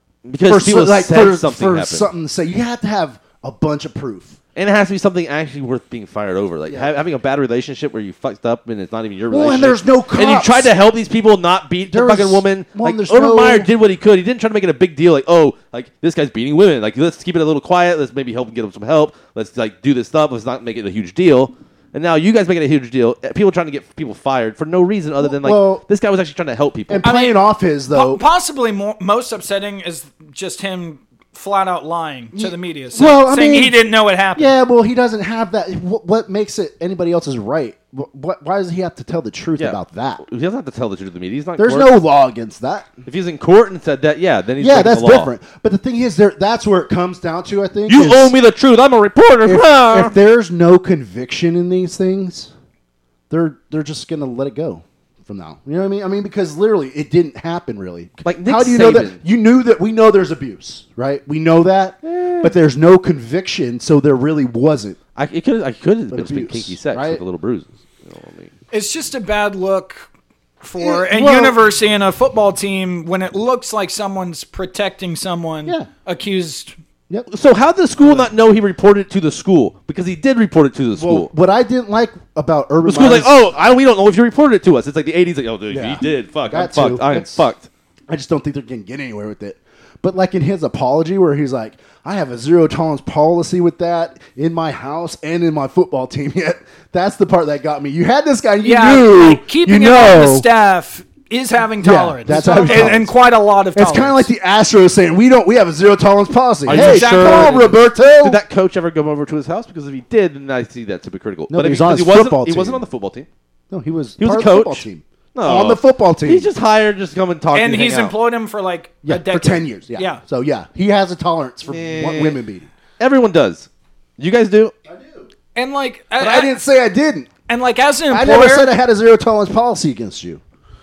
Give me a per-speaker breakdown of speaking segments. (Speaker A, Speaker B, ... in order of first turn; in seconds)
Speaker A: 0.2-2.1, 4.5-27.1, 39.6-41.9, 43.1-45.3, 47.9-50.1, 58.2-59.2, 62.0-62.5, 65.2-68.5, 77.3-81.3, 82.8-87.7, 102.3-103.0, 106.7-113.3, 114.2-118.2, 121.7-122.4, 123.0-124.7
Speaker B: 0.4-4.4, 9.3-10.7, 11.9-13.7, 25.2-25.8, 26.9-28.2, 32.4-33.8, 34.4-40.2, 41.6-43.0, 44.6-48.3, 49.4-52.5, 53.3-65.0, 66.1-67.2, 70.8-71.6, 78.0-78.3, 81.0-83.4, 85.7-87.5, 88.1-100.5, 101.8-103.2, 103.8-108.4, 111.5-112.8, 113.7-116.5, 119.0-122.7, 124.9-125.3, 126.2-127.3, 128.1-130.4
Speaker C: 27.0-34.5, 68.7-70.1, 70.6-76.7, 98.6-104.3, 106.7-107.7, 117.5-120.2, 125.5-126.6, 127.5-128.7